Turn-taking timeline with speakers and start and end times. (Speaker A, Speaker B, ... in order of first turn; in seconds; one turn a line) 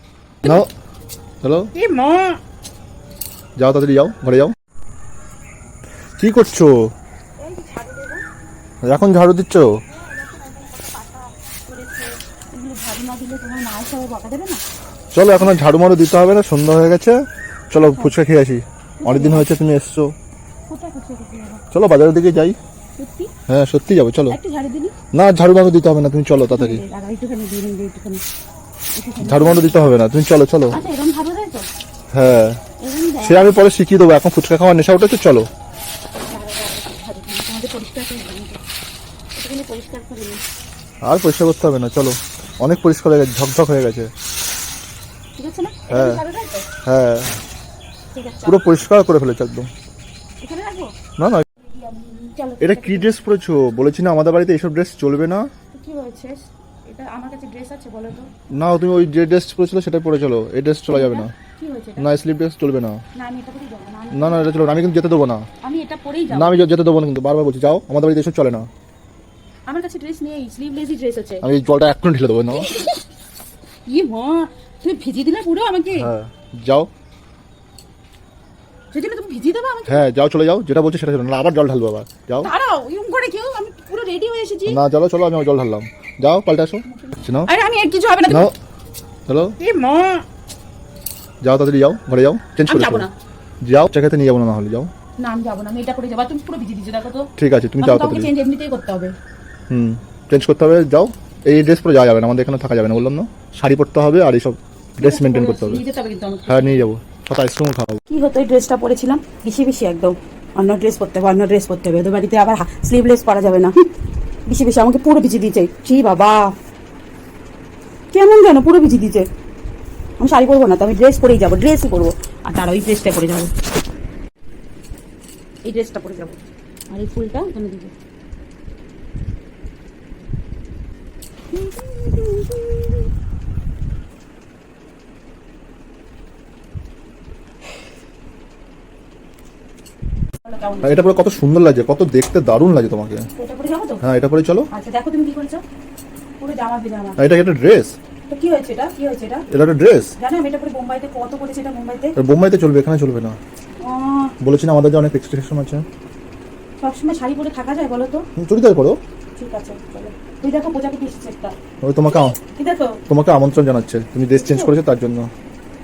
Speaker A: 0.4-0.7
Speaker A: 1.4-1.7
Speaker B: 1.7-2.4
Speaker A: 3.6-4.5
Speaker A: 6.2-6.9
Speaker B: 7.4-8.2
Speaker A: 8.8-9.8
Speaker B: 10.0-14.6
Speaker A: 15.1-17.2
Speaker A: 17.7-20.1
Speaker B: 19.0-19.5
Speaker B: 20.7-21.6
Speaker A: 21.7-22.6
Speaker B: 23.0-23.3
Speaker A: 23.5-24.4
Speaker B: 24.3-24.9
Speaker A: 25.1-26.8
Speaker B: 26.5-28.2
Speaker B: 28.9-29.8
Speaker A: 29.2-30.8
Speaker B: 30.7-31.7
Speaker A: 32.1-32.6
Speaker B: 32.8-33.5
Speaker A: 33.2-35.5
Speaker B: 36.2-38.6
Speaker B: 39.4-40.4
Speaker A: 41.0-44.1
Speaker B: 45.4-46.7
Speaker A: 45.9-46.2
Speaker A: 46.8-47.4
Speaker B: 48.1-48.8
Speaker A: 48.4-49.7
Speaker B: 50.4-50.9
Speaker A: 51.2-51.4
Speaker B: 51.6-53.1
Speaker A: 52.6-55.5
Speaker B: 55.7-58.3
Speaker A: 58.5-61.3
Speaker B: 60.9-62.1
Speaker A: 62.0-63.0
Speaker B: 63.1-64.6
Speaker A: 64.1-65.5
Speaker B: 65.6-66.6
Speaker A: 66.3-68.7
Speaker B: 69.7-71.4
Speaker A: 71.4-72.7
Speaker B: 72.5-73.0
Speaker B: 73.9-76.1
Speaker A: 76.0-76.9
Speaker B: 78.9-80.0
Speaker A: 79.9-82.5
Speaker B: 82.4-84.8
Speaker A: 84.7-87.5
Speaker B: 86.8-88.5
Speaker A: 88.3-88.5
Speaker A: 89.3-89.5
Speaker B: 89.6-90.2
Speaker A: 91.4-93.1
Speaker B: 92.7-93.1
Speaker A: 93.6-94.9
Speaker B: 95.2-97.3
Speaker A: 97.4-98.3
Speaker B: 97.8-99.1
Speaker A: 99.7-105.8
Speaker B: 105.0-106.8
Speaker A: 106.5-108.0
Speaker B: 108.1-113.8
Speaker B: 114.5-116.5
Speaker B: 118.1-119.3
Speaker B: 120.2-123.5
Speaker B: 125.6-127.9
Speaker B: 131.5-133.0
Speaker B: 140.4-141.0
Speaker A: 140.8-143.3
Speaker B: 143.3-144.0
Speaker A: 144.0-144.7
Speaker B: 144.7-145.6
Speaker B: 146.4-147.2
Speaker A: 147.2-147.9
Speaker B: 148.3-149.4
Speaker A: 149.5-150.1
Speaker B: 150.2-152.2
Speaker A: 152.2-153.4
Speaker B: 153.8-154.3
Speaker A: 154.4-155.8
Speaker B: 156.8-158.3
Speaker A: 158.3-159.0
Speaker B: 159.3-161.5
Speaker A: 161.8-162.3
Speaker B: 162.1-163.0
Speaker A: 163.1-165.3
Speaker B: 164.3-164.7